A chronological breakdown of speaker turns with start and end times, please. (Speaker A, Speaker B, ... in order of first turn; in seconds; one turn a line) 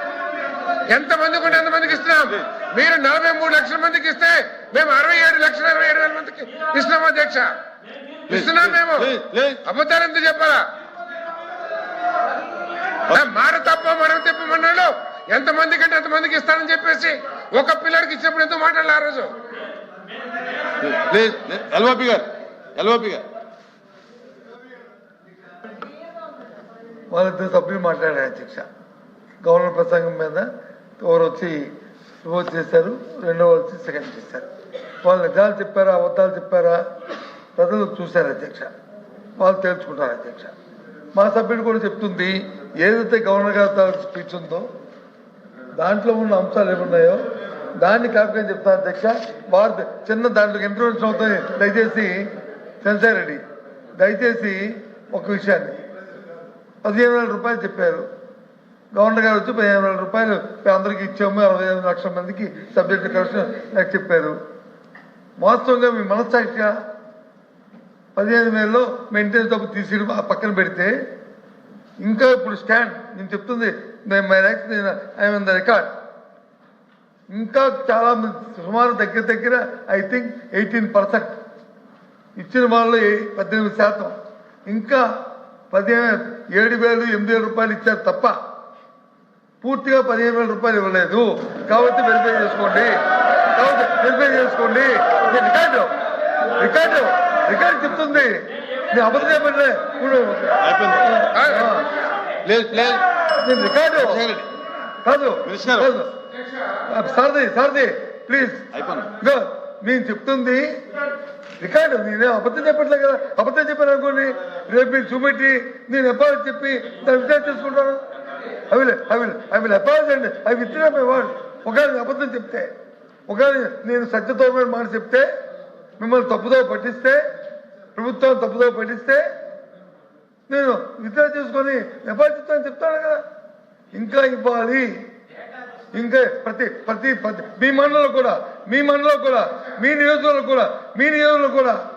Speaker A: 0.9-7.5
Speaker A: 8.3-10.6
Speaker B: 8.3-9.6
Speaker A: 13.1-19.4
Speaker B: 20.8-23.2
Speaker C: 27.1-28.7
Speaker C: 29.4-30.5
Speaker C: 31.0-31.7
Speaker C: 32.2-34.5
Speaker C: 35.0-36.8
Speaker C: 37.6-38.7
Speaker C: 39.4-40.5
Speaker C: 41.1-44.7
Speaker C: 45.8-47.3
Speaker C: 47.8-52.3
Speaker C: 52.8-53.4
Speaker C: 54.0-55.8
Speaker C: 56.8-58.1
Speaker C: 58.9-64.4
Speaker C: 65.4-66.8
Speaker C: 68.2-71.0
Speaker C: 72.0-75.9
Speaker C: 77.3-81.4
Speaker C: 82.4-85.1
Speaker C: 85.7-88.4
Speaker C: 89.6-93.0
Speaker C: 93.5-95.9
Speaker C: 96.6-101.9
Speaker B: 100.6-101.2
Speaker A: 101.3-101.7
Speaker B: 102.5-103.0
Speaker C: 103.4-104.3
Speaker B: 104.0-104.5
Speaker C: 105.0-106.1
Speaker B: 105.5-105.9
Speaker C: 106.9-108.7
Speaker B: 108.7-109.1
Speaker C: 109.2-110.8
Speaker C: 111.6-118.0
Speaker C: 118.7-122.7
Speaker C: 123.3-125.3
Speaker C: 126.0-127.2
Speaker C: 128.0-129.3
Speaker C: 130.5-133.2
Speaker C: 133.9-135.0
Speaker C: 135.9-141.8